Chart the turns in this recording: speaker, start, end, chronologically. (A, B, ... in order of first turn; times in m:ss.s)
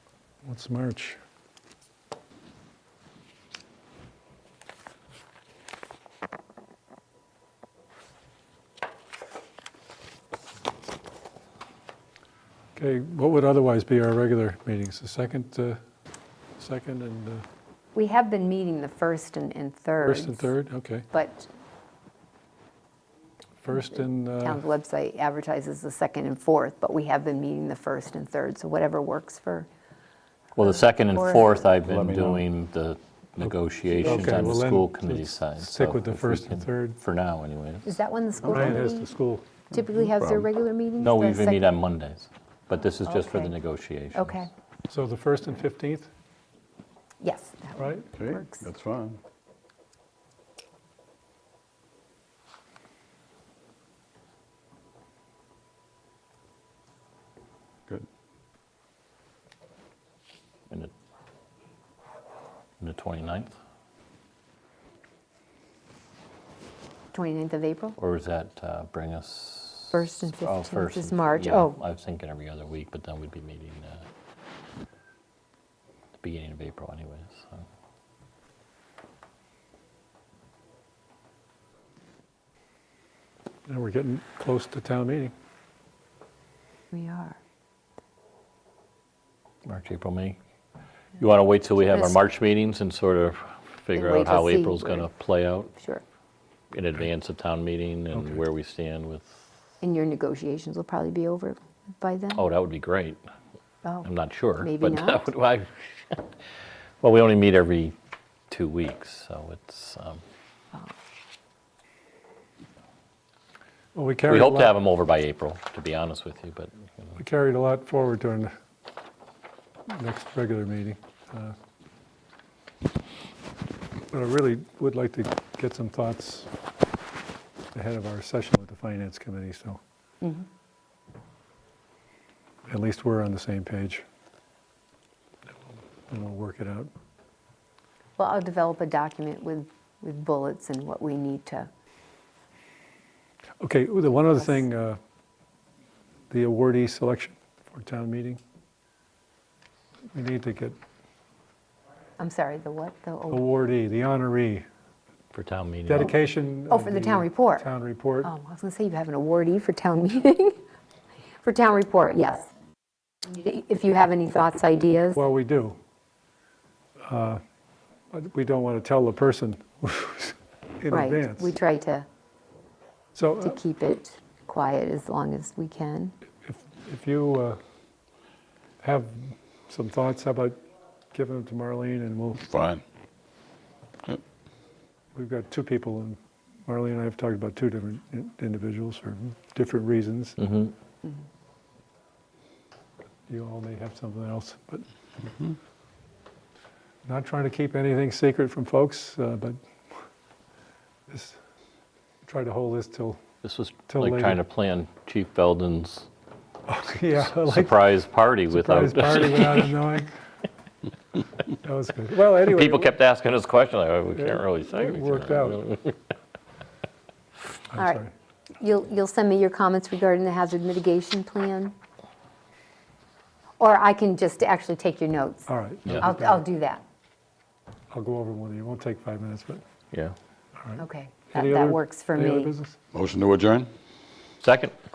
0:00.4-0:01.2 A
0:12.8-0:15.8 A
0:16.6-0:17.4 A
0:17.9-0:20.5 B
0:20.0-0:21.0 A
0:21.1-0:21.5 B
0:23.6-0:24.6 A
0:23.7-0:29.7 B
0:30.6-0:37.9 C
0:30.6-0:31.7 B
0:31.8-0:32.5 D
0:34.0-0:37.0 A
0:37.8-0:39.1 B
0:38.4-0:39.5 A
0:38.5-0:38.8 D
0:39.7-0:41.8 B
0:40.2-0:40.5 D
0:41.0-0:44.4 C
0:43.0-0:43.5 B
0:44.1-0:44.5 B
0:44.9-0:46.1 A
0:47.2-0:48.7 B
0:47.8-0:48.0 A
0:48.1-0:49.2 D
1:02.8-1:03.6 C
1:07.1-1:08.0 B
1:08.0-1:14.0 C
1:09.9-1:11.8 B
1:16.2-1:17.7 C
1:23.7-1:25.3 A
1:26.9-1:27.4 B
1:29.6-1:30.4 C
1:31.2-1:35.7 C
1:31.8-1:32.1 B
1:33.9-1:35.1 B
1:35.7-1:36.0 B
1:36.7-1:39.4 C
1:39.8-1:42.4 B
1:42.3-1:43.2 C
1:44.0-1:46.3 C
1:44.6-1:45.3 B
1:47.0-1:47.9 C
1:48.5-1:50.2 C
1:53.9-1:54.7 A
1:54.3-1:57.1 C
1:57.2-1:58.5 A
1:59.9-2:01.6 A
2:04.1-2:06.5 A
2:07.7-2:09.8 A
2:12.7-2:14.0 A
2:16.1-2:16.9 A
2:18.2-2:21.7 B
2:23.6-2:25.0 A
2:26.3-2:28.4 A
2:30.1-2:30.8 A
2:32.2-2:33.4 B
2:33.3-2:34.6 A
2:35.3-2:36.1 C
2:35.8-2:38.3 A
2:36.7-2:37.7 B
2:38.2-2:40.6 B
2:41.4-2:42.5 B
2:43.2-2:45.2 B
2:45.2-2:45.8 A
2:47.0-2:47.4 A
2:48.1-2:51.5 A
2:50.9-2:52.1 B
2:53.1-2:53.6 A
2:53.4-2:56.1 B
2:56.4-2:57.6 A
2:58.8-3:00.6 A
3:01.1-3:02.5 A
3:02.4-3:02.8 D
3:05.1-3:10.4 A
3:10.4-3:10.7 C
3:13.3-3:14.8 A
3:17.1-3:19.6 A
3:21.1-3:21.4 A
3:22.2-3:23.2 A
3:23.4-3:26.1 C
3:23.9-3:24.4 A
3:26.7-3:27.8 A
3:27.1-3:29.7 C
3:28.5-3:30.1 A
3:31.6-3:32.9 A
3:32.2-3:36.0 C
3:34.2-3:35.7 A
3:37.7-3:38.1 A
3:37.8-3:38.0 B
3:38.6-3:41.7 B
3:43.6-3:45.5 B
3:45.5-3:46.4 A
3:46.0-3:46.8 B
3:47.9-3:49.6 A
3:50.6-3:52.8 A
3:50.8-3:52.5 B
3:52.9-3:53.7 D
3:54.4-3:54.7 C